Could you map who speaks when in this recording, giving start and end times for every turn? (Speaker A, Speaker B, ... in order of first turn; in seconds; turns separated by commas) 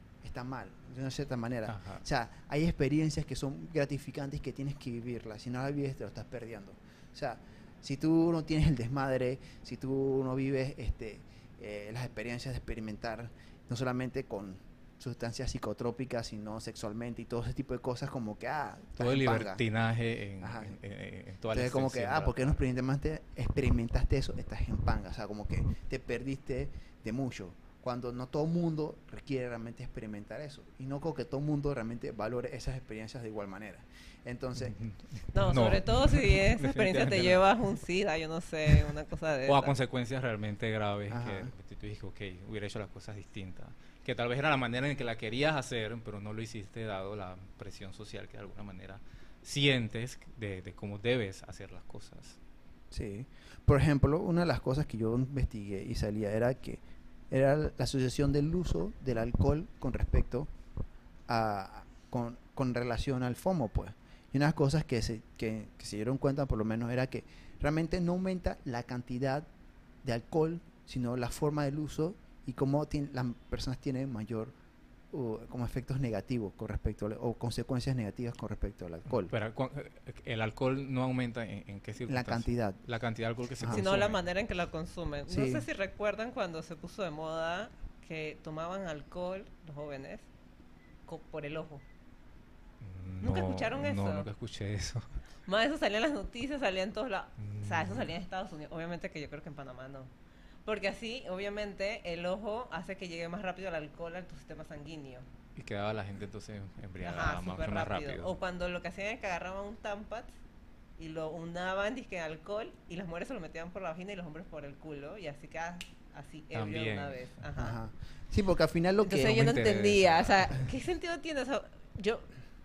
Speaker A: 0.2-19.6, Speaker B: 1.7-2.0, Speaker B: 19.0-22.6, Speaker A: 20.4-20.8, Speaker A: 21.5-34.7, Speaker B: 34.6-37.4, Speaker C: 35.3-39.7, Speaker B: 39.5-52.4, Speaker A: 41.1-41.5, Speaker A: 52.9-60.5, Speaker A: 61.3-69.5, Speaker A: 70.0-74.5, Speaker A: 75.1-79.3, Speaker B: 79.2-84.2, Speaker A: 82.1-82.8, Speaker C: 83.7-90.3, Speaker A: 85.3-85.7, Speaker C: 91.1-91.8, Speaker B: 92.8-95.0, Speaker C: 93.2-94.3, Speaker C: 95.5-100.1, Speaker B: 97.4-98.1, Speaker C: 100.6-105.2, Speaker B: 105.5-108.3, Speaker C: 107.0-110.3, Speaker C: 111.0-117.8, Speaker B: 116.5-117.2, Speaker A: 117.5-119.5, Speaker C: 119.0-122.3, Speaker B: 119.2-120.7